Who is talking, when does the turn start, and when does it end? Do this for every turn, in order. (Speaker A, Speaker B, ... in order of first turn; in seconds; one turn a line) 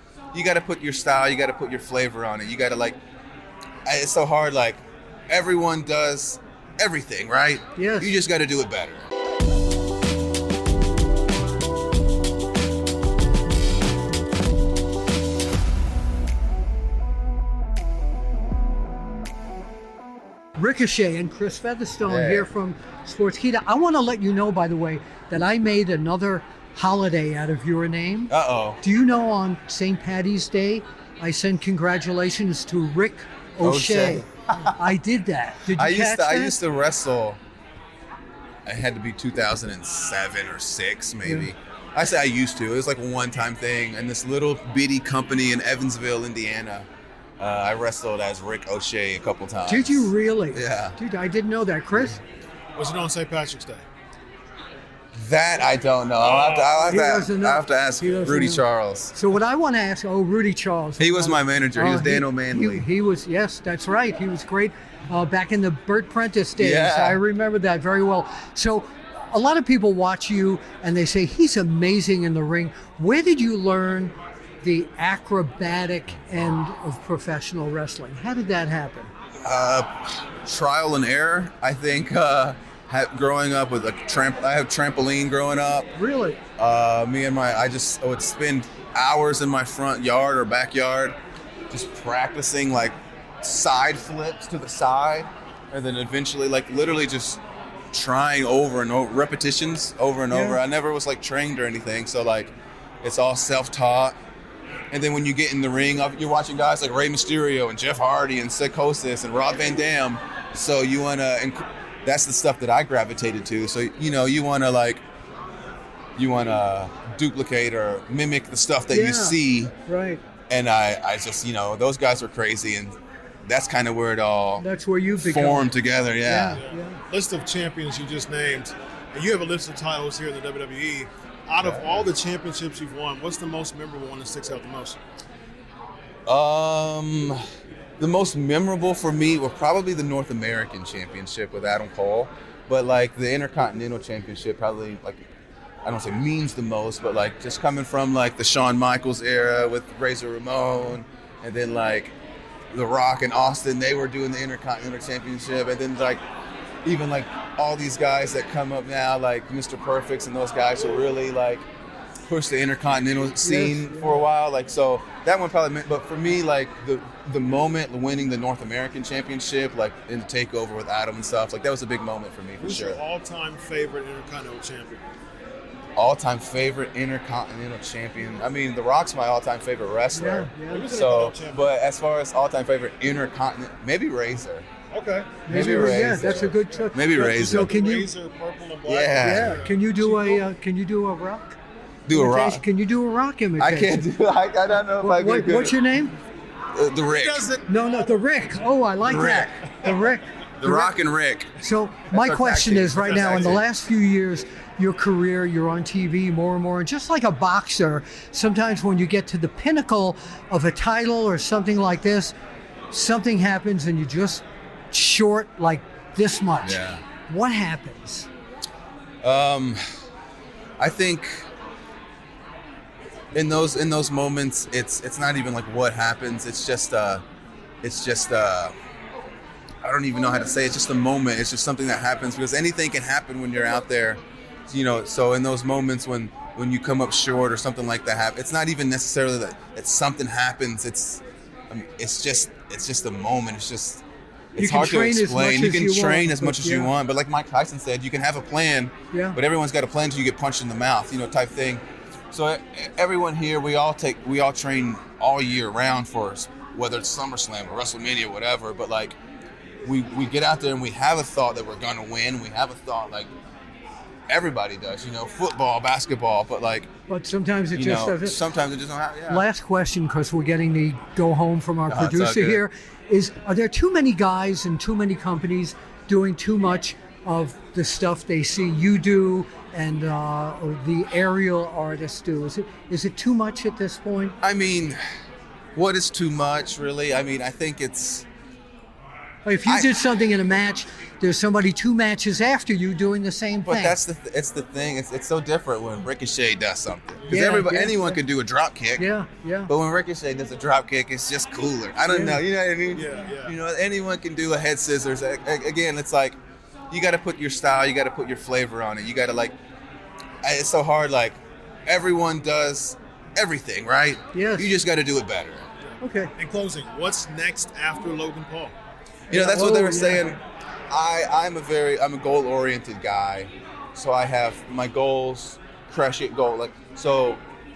Speaker A: 0.3-3.0
Speaker A: 3.9-9.1
Speaker B: 7.8-8.2
Speaker B: 20.6-36.6
Speaker A: 22.1-22.5
Speaker A: 28.3-28.8
Speaker A: 33.6-34.7
Speaker A: 35.7-37.4
Speaker A: 38.6-46.9
Speaker B: 41.2-41.5
Speaker A: 47.4-51.0
Speaker B: 49.7-52.2
Speaker C: 52.8-53.8
Speaker A: 55.1-59.1
Speaker C: 56.3-56.7
Speaker B: 56.8-79.1
Speaker A: 61.0-62.9
Speaker A: 66.6-67.2
Speaker A: 79.4-85.9
Speaker B: 85.9-86.4
Speaker A: 86.6-91.2
Speaker A: 91.7-102.5
Speaker B: 100.3-100.6
Speaker A: 103.0-104.2
Speaker A: 104.9-115.0
Speaker A: 116.2-119.7
Speaker B: 118.9-120.2
Speaker A: 120.5-124.6
Speaker B: 124.6-125.7
Speaker A: 125.2-126.6
Speaker B: 126.2-127.0
Speaker C: 126.5-135.0
Speaker A: 131.6-132.1
Speaker A: 136.3-137.4
Speaker A: 138.0-145.2
Speaker A: 145.8-152.1
Speaker A: 152.7-156.2
Speaker A: 156.8-161.6
Speaker A: 162.3-173.0
Speaker B: 163.4-164.2
Speaker C: 172.6-175.0
Speaker A: 175.9-184.7
Speaker B: 180.1-180.9
Speaker C: 180.7-181.7
Speaker C: 184.9-190.4
Speaker B: 185.5-188.1
Speaker A: 185.5-187.8
Speaker A: 188.8-189.6
Speaker B: 189.2-191.6
Speaker A: 192.1-192.6
Speaker B: 192.1-194.1
Speaker A: 193.6-195.8
Speaker B: 195.0-196.2
Speaker A: 196.7-197.5
Speaker C: 197.1-197.6
Speaker B: 197.7-201.0
Speaker A: 199.0-199.7
Speaker A: 200.6-201.5
Speaker B: 201.6-212.3
Speaker A: 202.1-203.6
Speaker C: 203.3-203.6
Speaker B: 212.9-218.3
Speaker A: 216.6-217.0
Speaker A: 219.2-219.8
Speaker A: 220.8-221.5
Speaker A: 223.3-227.2
Speaker A: 227.8-228.7
Speaker A: 229.8-244.0
Speaker A: 244.5-259.1
Speaker B: 244.6-246.9
Speaker B: 249.1-249.4
Speaker A: 259.8-263.3
Speaker A: 264.3-266.9
Speaker B: 267.1-268.4
Speaker A: 267.7-269.4
Speaker B: 269.3-284.4
Speaker A: 271.9-272.6
Speaker A: 284.4-285.0
Speaker A: 285.7-288.3
Speaker B: 289.4-294.0
Speaker A: 289.6-289.9
Speaker A: 293.6-299.0
Speaker B: 297.3-298.2
Speaker B: 299.0-299.7
Speaker A: 299.7-306.4
Speaker B: 302.1-302.4
Speaker C: 302.9-303.6
Speaker A: 306.9-309.6
Speaker A: 310.4-315.7
Speaker B: 314.3-314.7
Speaker B: 316.0-316.3
Speaker C: 316.4-318.7
Speaker B: 319.3-320.4
Speaker A: 319.3-327.4